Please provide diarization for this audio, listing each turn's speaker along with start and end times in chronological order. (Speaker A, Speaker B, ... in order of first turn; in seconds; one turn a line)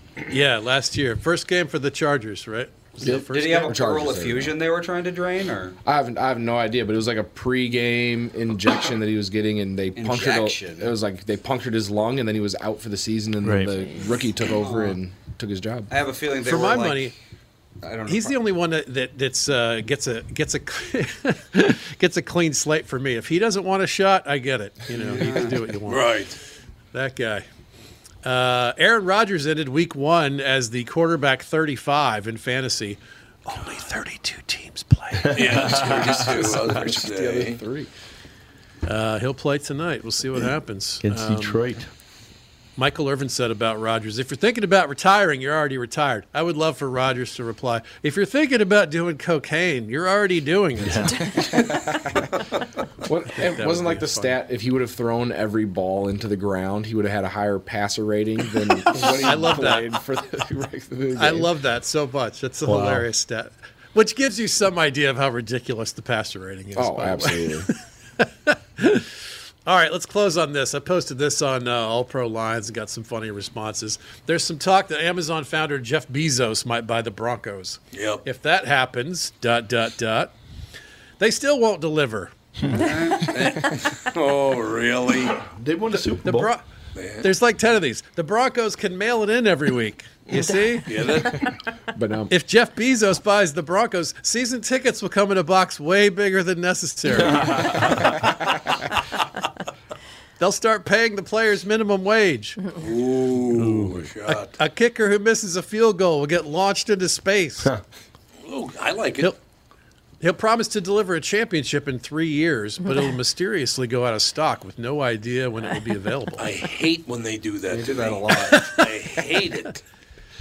Speaker A: 0.3-3.8
Speaker B: 3.0-4.5
Speaker C: 3.3-5.8
Speaker B: 5.8-15.9
Speaker C: 9.9-10.9
Speaker D: 13.4-13.7
Speaker C: 14.5-15.0
Speaker C: 15.9-17.1
Speaker A: 16.4-17.1
Speaker C: 17.8-18.4
Speaker A: 18.1-26.2
Speaker C: 24.9-25.6
Speaker E: 25.9-26.4
Speaker A: 26.9-27.4
Speaker A: 28.2-35.9
Speaker D: 35.2-36.8
Speaker E: 35.3-37.6
Speaker B: 35.9-37.9
Speaker A: 38.8-41.6
Speaker D: 41.0-41.9
Speaker A: 42.8-51.6
Speaker D: 50.8-51.2
Speaker B: 51.5-52.2
Speaker B: 53.0-61.5
Speaker A: 53.3-54.4
Speaker A: 58.9-60.0
Speaker A: 61.1-80.3
Speaker D: 62.6-63.1
Speaker B: 66.7-67.7
Speaker E: 77.9-78.2
Speaker A: 81.2-82.3
Speaker D: 82.6-82.9
Speaker C: 82.7-83.3
Speaker E: 83.2-85.4
Speaker D: 85.4-86.5
Speaker A: 86.0-86.6
Speaker E: 86.9-87.3
Speaker A: 87.2-91.0
Speaker D: 90.3-90.6
Speaker E: 90.8-91.4
Speaker B: 91.9-92.3
Speaker A: 92.3-98.2
Speaker D: 97.2-98.2
Speaker A: 100.4-102.6
Speaker E: 102.7-104.5
Speaker D: 103.5-104.0
Speaker A: 104.3-107.7
Speaker E: 108.4-109.3
Speaker A: 110.2-116.4
Speaker E: 116.4-119.8
Speaker C: 117.7-118.5
Speaker A: 118.5-119.2